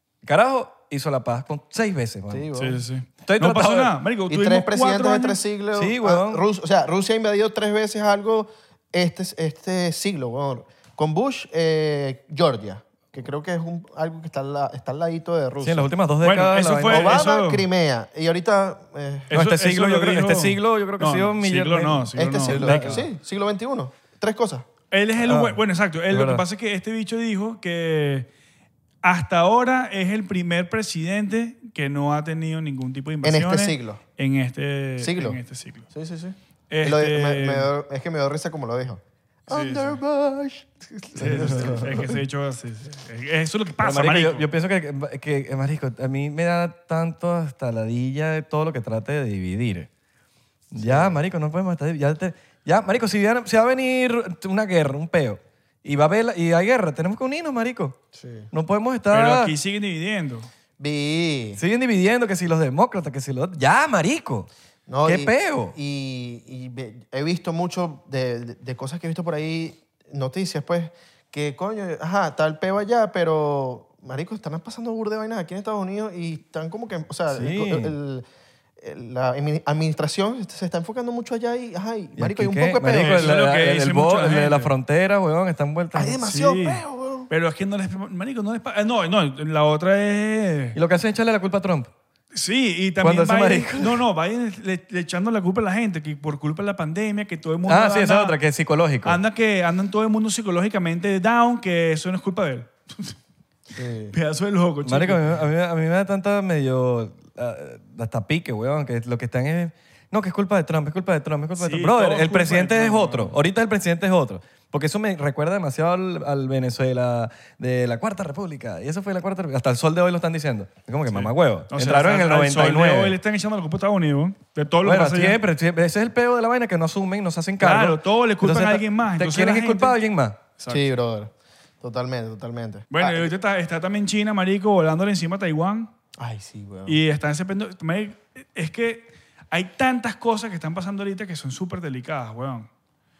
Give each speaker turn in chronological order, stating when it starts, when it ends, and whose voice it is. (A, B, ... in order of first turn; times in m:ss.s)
0:00.2-0:02.5 A
0:02.3-0:02.8 B
0:02.5-0:05.4 C
0:03.2-0:03.9 A
0:04.3-0:15.9 B
0:05.7-0:06.4 A
0:15.6-0:17.2 A
0:16.2-0:17.6 C
0:16.9-0:19.3 B
0:19.3-0:23.1 C
0:19.3-0:23.0 A
0:22.1-0:24.6 B
0:24.9-0:28.3 C
0:25.2-0:26.4 A
0:29.0-0:35.9 C
0:33.2-0:34.0 B
0:35.0-0:35.4 B
0:35.9-0:42.1 B
0:36.7-0:37.7 C
0:39.5-0:40.0 C
0:41.2-0:44.4 C
0:41.3-0:42.1 A
0:43.8-0:49.9 A
0:50.7-0:58.0 A
0:50.8-0:51.2 B
0:58.1-0:58.5 B
0:58.5-0:59.5 A
0:59.1-1:00.5 C
1:00.8-1:01.6 B
1:01.6-1:04.5 A
1:04.9-1:18.2 B
1:05.0-1:05.8 A
1:17.3-1:17.9 A
1:18.8-1:23.4 B
1:22.2-1:26.2 A
1:22.9-1:24.7 C
1:25.9-1:27.3 B
1:26.2-1:30.8 C
1:30.7-1:31.9 A
1:32.3-1:38.4 C
1:33.0-1:34.0 A
1:37.7-1:39.2 A
1:39.0-1:43.2 C
1:43.7-1:44.1 B
1:44.1-1:45.2 C
1:44.8-2:03.2 A
1:51.6-1:53.3 C
2:01.1-2:05.4 C
2:04.8-2:10.4 A
2:07.6-2:10.0 C
2:10.6-2:10.8 C
2:10.7-2:13.3 B
2:12.9-2:15.9 C
2:16.2-2:17.0 B
2:16.9-2:22.7 C